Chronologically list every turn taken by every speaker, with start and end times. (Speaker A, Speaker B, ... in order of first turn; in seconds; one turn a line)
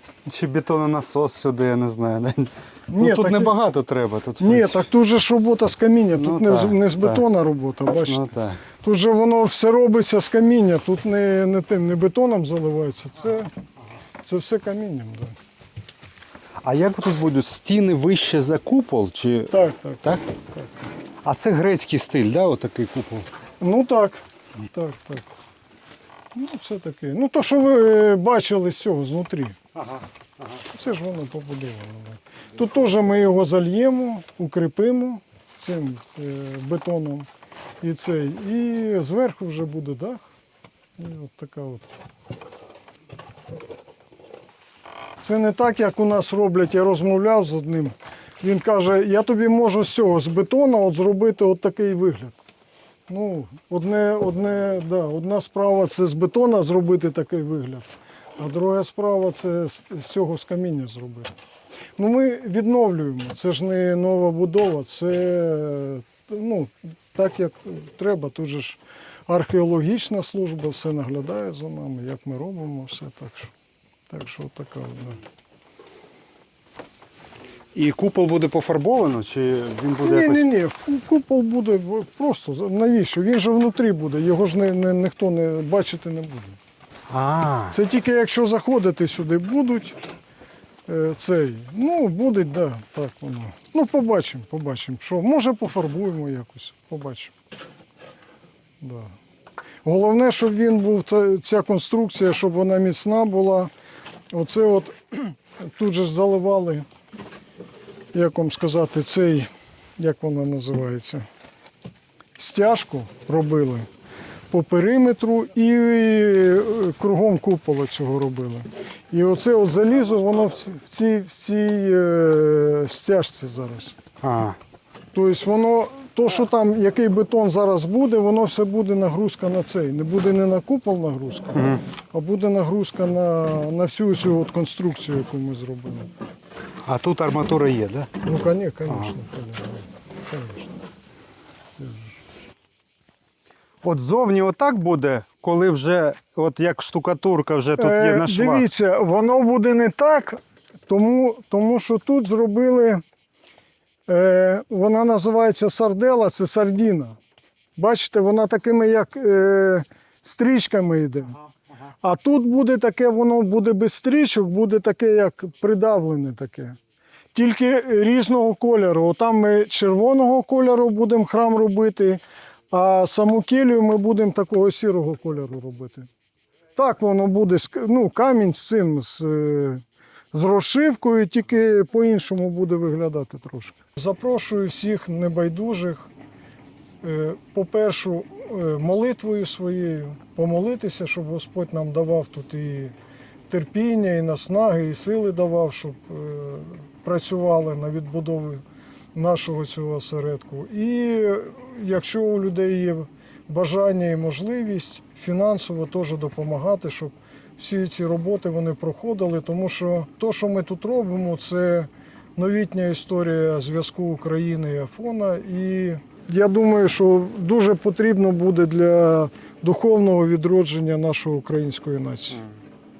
Speaker A: 0.2-4.9
Speaker B: 2.9-3.5
Speaker B: 4.4-8.3
Speaker A: 6.1-7.2
Speaker A: 8.0-8.6
Speaker B: 8.8-13.5
Speaker B: 14.2-15.3
Speaker A: 16.6-20.2
Speaker B: 19.5-20.7
Speaker A: 21.2-23.3
Speaker B: 23.6-25.3
Speaker B: 26.3-29.6
Speaker A: 29.8-30.1
Speaker B: 30.7-37.3
Speaker B: 37.8-40.2
Speaker B: 41.0-41.9
Speaker B: 45.2-52.4
Speaker B: 53.1-61.3
Speaker B: 62.0-73.5
Speaker B: 74.1-75.2
Speaker A: 77.7-80.4
Speaker B: 80.0-86.6
Speaker A: 87.1-87.8
Speaker B: 87.7-90.0
Speaker B: 90.9-97.3
Speaker B: 98.8-99.1
Speaker B: 99.8-103.7
Speaker B: 104.3-106.8
Speaker B: 108.1-111.2
Speaker B: 112.4-113.8
Speaker B: 114.5-124.0
Speaker A: 124.2-124.6
Speaker B: 125.1-136.1
Speaker A: 131.5-131.8
Speaker A: 136.8-138.1
Speaker B: 138.2-140.8
Speaker A: 138.9-139.1
Speaker A: 143.8-148.7
Speaker B: 147.8-153.0
Speaker B: 154.1-157.2
Speaker B: 157.8-161.4
Speaker B: 162.0-166.8
Speaker B: 167.3-176.1
Speaker B: 176.8-186.1
Speaker B: 187.0-192.9
Speaker B: 193.5-222.4